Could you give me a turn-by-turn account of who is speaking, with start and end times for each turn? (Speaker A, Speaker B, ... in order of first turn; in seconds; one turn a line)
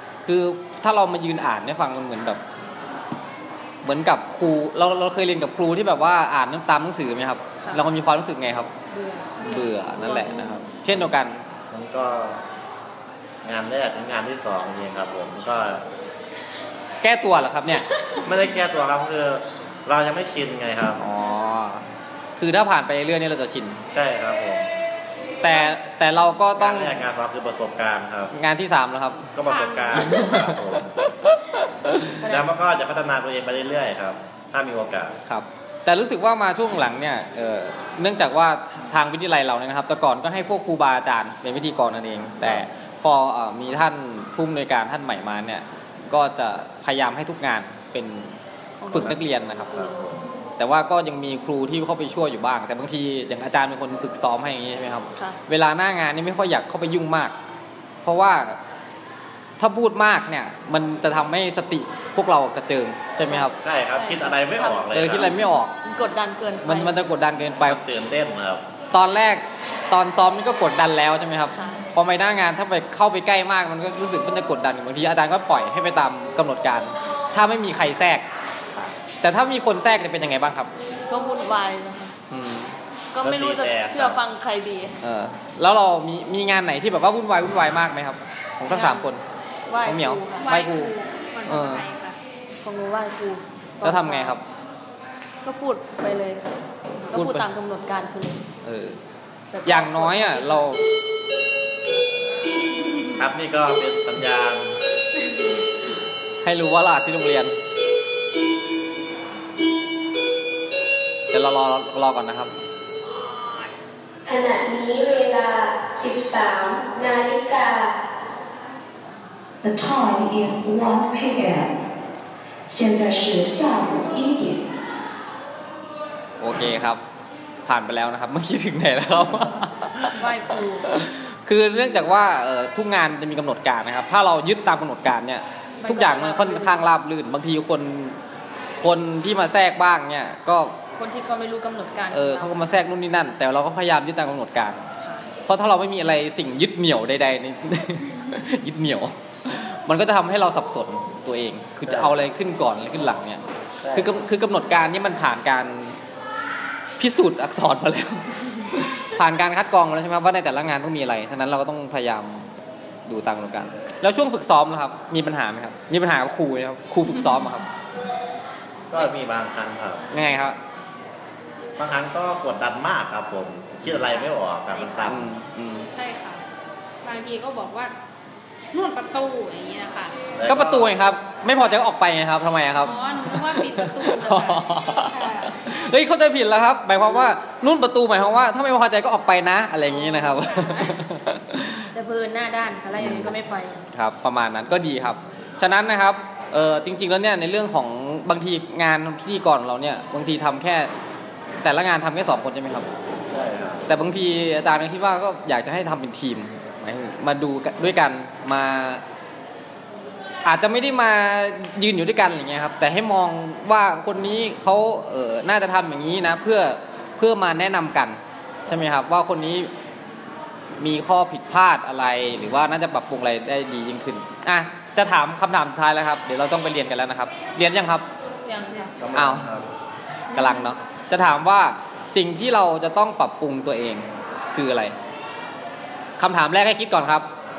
Speaker A: 0.2-2.4
Speaker A: 3.8-8.7
Speaker B: 8.9-10.7
Speaker A: 9.4-11.4
Speaker C: 11.7-12.4
Speaker C: 13.4-15.8
Speaker A: 17.0-17.9
Speaker B: 17.9-18.3
Speaker C: 18.2-21.0
Speaker A: 21.0-21.9
Speaker A: 22.4-23.8
Speaker C: 23.9-24.7
Speaker A: 25.4-27.0
Speaker C: 26.6-28.3
Speaker A: 28.3-29.3
Speaker C: 29.3-31.0
Speaker D: 29.4-30.1
Speaker A: 29.9-32.2
Speaker B: 32.2-32.5
Speaker C: 32.2-35.2
Speaker A: 35.2-48.4
Speaker B: 48.8-49.1
Speaker A: 48.9-49.8
Speaker C: 48.9-49.2
Speaker C: 49.7-50.2
Speaker B: 49.7-50.0
Speaker A: 50.6-57.3
Speaker A: 58.0-58.6
Speaker A: 59.6-63.5
Speaker B: 63.3-64.9
Speaker C: 63.6-65.3
Speaker A: 64.9-65.7
Speaker B: 65.8-67.0
Speaker A: 66.6-67.8
Speaker C: 67.6-68.7
Speaker A: 68.9-78.2
Speaker B: 71.5-71.8
Speaker A: 79.2-80.7
Speaker B: 81.1-82.1
Speaker A: 82.3-82.7
Speaker B: 83.1-85.0
Speaker C: 83.2-84.2
Speaker A: 85.0-89.2
Speaker B: 88.7-89.1
Speaker B: 89.7-90.5
Speaker A: 89.8-90.9
Speaker D: 90.4-92.2
Speaker A: 91.5-91.8
Speaker B: 92.6-94.4
Speaker A: 93.8-94.4
Speaker B: 95.4-98.4
Speaker A: 97.1-97.5
Speaker A: 98.6-99.0
Speaker B: 99.5-100.7
Speaker A: 99.6-100.8
Speaker C: 103.2-104.8
Speaker A: 106.4-107.5
Speaker A: 111.3-112.5
Speaker E: 114.2-118.0
Speaker F: 119.6-121.7
Speaker F: 122.7-124.6
Speaker A: 126.4-127.0
Speaker A: 127.7-138.2
Speaker B: 129.9-130.9
Speaker B: 135.8-136.8
Speaker A: 138.8-140.8
Speaker B: 141.0-142.6
Speaker A: 142.1-144.8
Speaker B: 145.0-145.3
Speaker A: 145.4-153.4
Speaker C: 151.8-152.2
Speaker C: 153.8-154.2
Speaker A: 153.9-156.0
Speaker A: 157.0-162.5
Speaker A: 163.1-167.7
Speaker C: 168.9-170.1
Speaker A: 170.1-170.6
Speaker C: 171.8-175.3
Speaker D: 174.7-175.1
Speaker A: 175.0-175.9
Speaker D: 175.9-176.4
Speaker D: 177.0-177.9
Speaker D: 178.7-180.2
Speaker C: 180.4-181.0
Speaker A: 180.5-191.8
Speaker D: 182.8-185.5
Speaker D: 190.2-190.9
Speaker B: 191.8-193.8
Speaker A: 193.0-193.4
Speaker A: 193.9-200.9
Speaker A: 201.6-202.9
Speaker C: 203.3-203.8
Speaker A: 203.9-209.0
Speaker A: 210.4-219.7
Speaker A: 220.8-228.1
Speaker B: 228.4-228.9
Speaker C: 229.0-229.7
Speaker A: 229.1-229.5
Speaker A: 230.3-234.9
Speaker A: 236.2-237.3